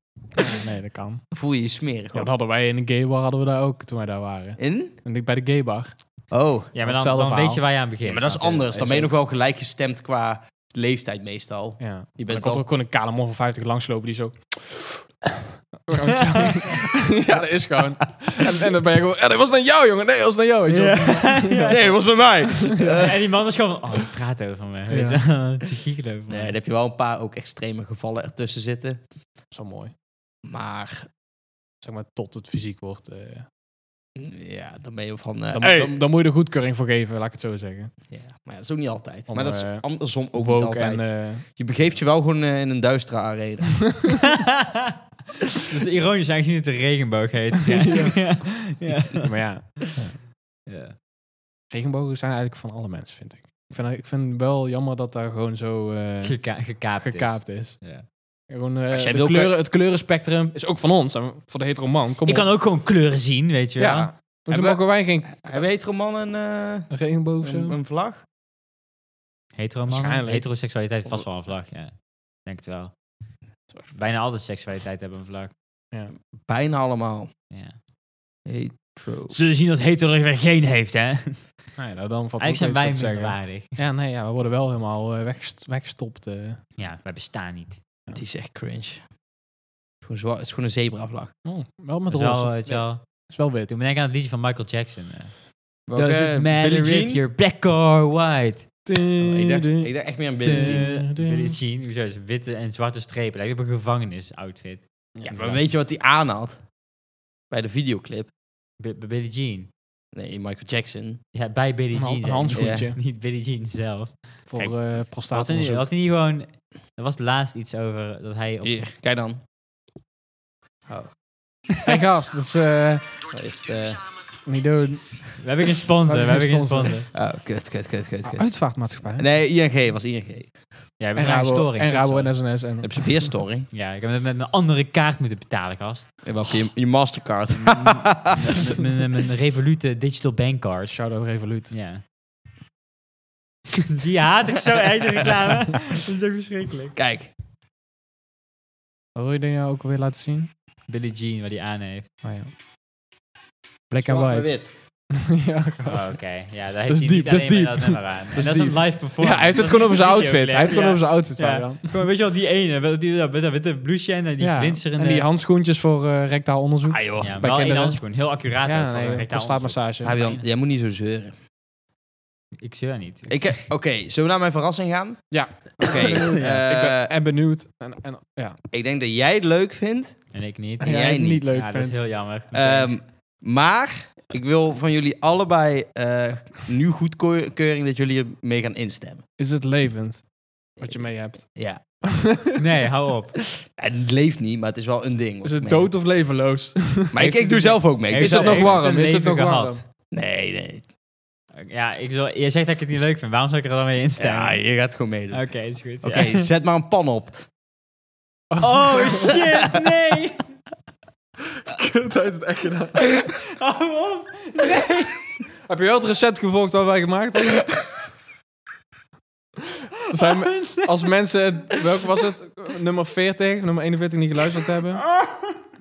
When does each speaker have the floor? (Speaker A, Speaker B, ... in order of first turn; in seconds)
Speaker A: 0.4-1.3, 2.1-6.0, 6.8-7.6, 8.7-9.1, 11.8-21.8, 24.9-25.2, 29.5-29.9, 31.8-33.5, 35.5-37.9, 39.3-41.5, 47.7-48.3, 49.1-50.2, 51.7-57.8, 58.5-62.5, 63.8-65.6, 66.9-67.8, 69.9-70.5, 81.8-86.6, 91.4-93.7, 98.8-99.9, 100.4-101.6, 105.2-105.5, 111.9-113.0, 114.5-115.9, 121.8-123.1, 124.4-125.3, 126.0-127.1, 128.2-129.2, 131.1-133.3, 140.8-141.7, 149.1-150.5, 152.2-152.5, 153.9-154.6, 155.1-156.2, 156.9-162.0, 164.4-168.1, 168.6-170.2, 175.3-178.6, 180.8-182.0, 189.4-190.2, 190.8-192.6, 195.4-199.8, 208.5-209.4, 211.7-213.2, 215.7-217.8, 220.1-225.0
Speaker B: 1.3-2.3, 4.6-4.9, 6.3-6.7, 8.0-12.6, 21.6-23.3, 26.3-29.0, 30.4-31.1, 34.1-36.0, 38.1-44.0, 58.9-59.5, 64.5-68.2, 76.4-77.3, 78.5-79.3, 88.1-89.1, 90.0-91.3, 95.9-97.2, 99.2-100.8, 105.2-106.6, 107.5-108.3, 110.1-111.2, 112.5-112.8, 118.6-119.4, 123.3-124.0, 127.1-130.6, 132.8-133.7, 136.2-138.3, 146.9-147.3, 154.0-154.7, 166.9-167.3, 170.0-171.3, 173.3-177.1, 178.7-181.4, 182.5-189.2, 191.5-191.8, 193.7-195.9, 197.1-198.8, 200.1-200.9, 204.2-207.4
Speaker C: 6.7-8.7, 16.1-16.7, 20.7-22.1, 22.6-26.5, 44.2-44.9, 45.6-49.3, 50.7-50.9, 56.2-58.0, 62.2-64.1, 69.5-72.9, 73.9-75.5, 77.5-77.8, 79.3-81.6, 82.4-83.7, 86.8-87.8, 92.1-98.7, 100.4-104.8, 108.8-109.7, 111.3-114.4, 115.3-118.8, 125.4-127.0, 131.0-132.4, 133.7-136.3, 137.6-141.0, 141.7-142.0, 143.8-146.9, 150.9-152.1, 155.9-165.2, 167.2-170.4, 172.6-173.6, 176.1-176.5, 180.3-182.9, 192.6-193.4, 198.1-199.8, 201.6-204.7, 205.3-206.5, 208.6-210.4, 213.1-215.3, 220.2-220.9, 225.0-225.5